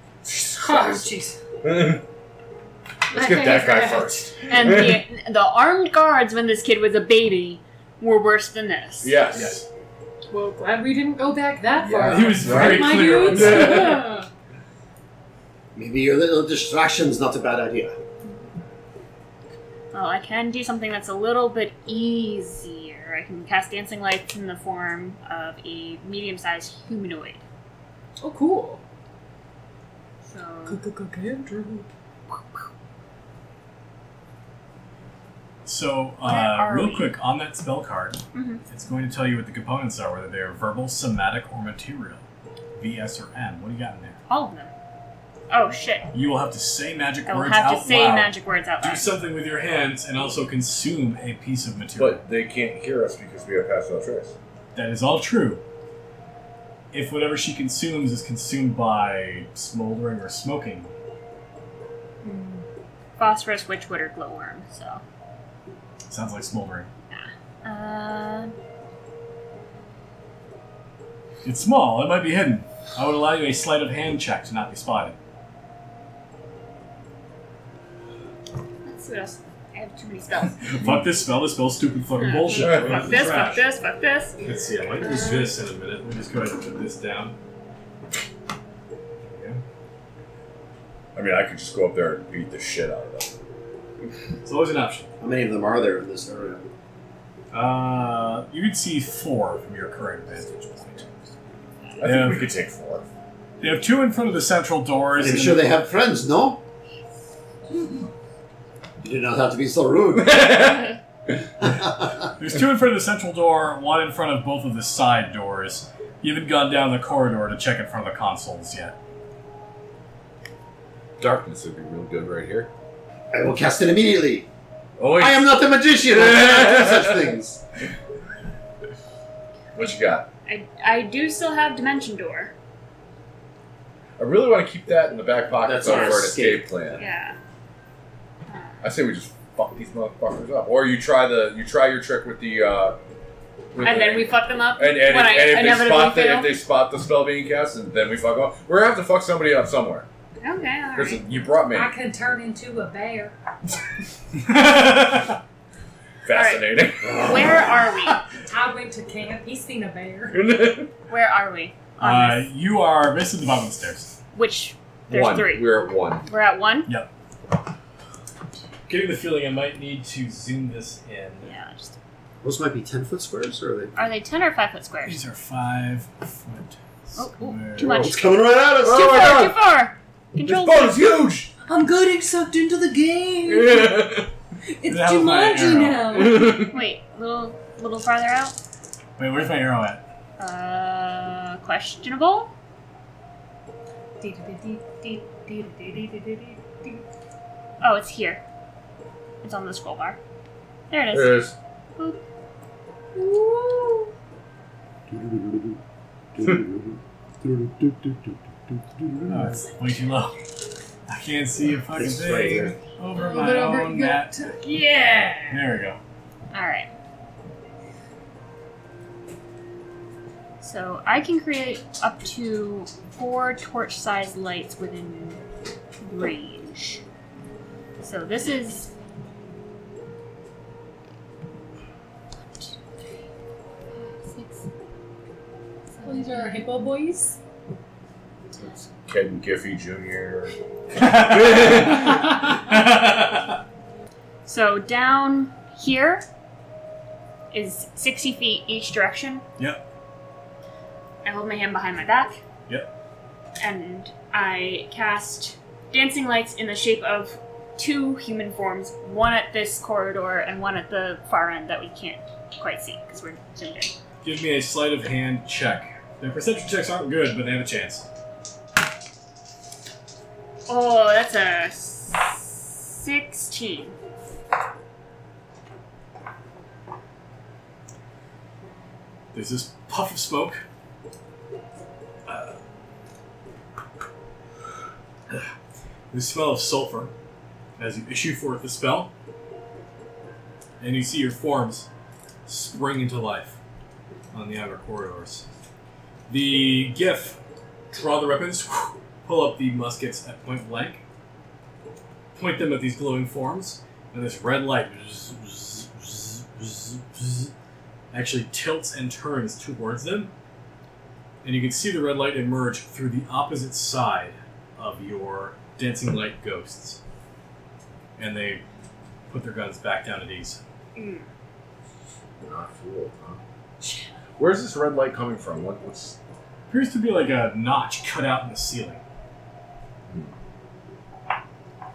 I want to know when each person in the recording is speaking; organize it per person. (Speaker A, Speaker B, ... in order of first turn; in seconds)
Speaker A: 0.2-1.1, 1.6-2.0, 3.1-5.0, 9.0-9.6, 11.8-14.2, 52.0-54.3, 82.6-83.2, 91.1-93.3, 102.0-103.0, 110.1-111.0, 121.2-122.7, 125.0-127.2, 129.7-130.3, 134.2-137.0, 138.8-143.0, 143.7-150.1, 150.9-151.9, 156.2-157.7, 160.3-160.9, 165.1-166.2, 178.7-179.6, 180.4-181.5, 183.4-184.3, 186.1-186.8, 201.1-201.6, 238.6-242.3, 322.4-323.4, 324.4-326.1
Speaker B: 0.5-1.4, 3.1-4.5, 10.3-14.3, 28.2-28.8, 30.6-31.9, 62.3-62.6, 151.6-153.3, 158.4-160.4, 181.6-184.1, 184.7-186.7, 194.2-197.0, 213.1-215.6, 236.0-237.4
Speaker C: 4.5-9.2, 19.9-27.4, 30.3-30.8, 36.2-37.1, 38.3-38.6, 44.3-44.7, 45.5-46.1, 47.3-49.1, 62.2-62.5, 63.2-65.0, 67.1-68.5, 78.8-80.8, 82.2-84.4, 130.4-132.5, 137.0-137.4, 138.5-138.9, 143.8-146.6, 150.4-151.2, 156.3-158.3, 161.1-162.5, 164.3-166.9, 171.4-171.9, 173.9-175.2, 177.2-181.1, 186.4-188.6, 190.4-192.5, 197.8-198.4, 199.4-200.2, 200.9-202.2, 203.2-204.1, 216.5-216.9, 220.6-225.4, 226.0-227.0, 228.0-228.9, 234.0-234.6, 236.0-236.4, 244.4-246.2, 247.5-249.4, 251.2-252.4, 253.6-263.9, 270.7-273.9, 320.9-321.2
Speaker D: 9.3-9.7, 12.0-14.1, 35.6-42.2, 42.8-44.2, 46.1-52.2, 54.7-55.6, 56.9-60.9, 66.1-66.9, 71.4-75.2, 80.6-83.7, 84.4-87.3, 89.2-89.6, 94.4-95.1, 97.5-101.1, 102.0-102.5, 103.6-105.7, 112.4-119.0, 154.3-155.4, 162.0-164.1, 168.9-171.5, 175.1-178.0, 184.9-186.4, 189.2-190.0, 209.3-210.4, 211.1-214.6, 215.5-216.0, 241.0-243.6, 264.2-268.1, 279.3-280.6, 282.2-282.6, 286.1-287.1, 287.8-289.1, 290.8-291.9, 292.4-293.6, 294.3-295.4, 296.3-297.4, 297.9-301.0, 302.3-307.5, 308.1-310.3, 311.4-317.0, 318.2-318.6, 319.3-320.6, 326.7-329.0
Speaker E: 15.7-17.9, 95.2-96.7, 105.2-106.6, 109.0-110.5, 111.6-112.1, 123.3-124.5, 125.2-127.6, 135.6-137.0, 172.4-173.9, 177.8-179.2, 205.1-205.8, 206.3-209.5, 211.9-212.8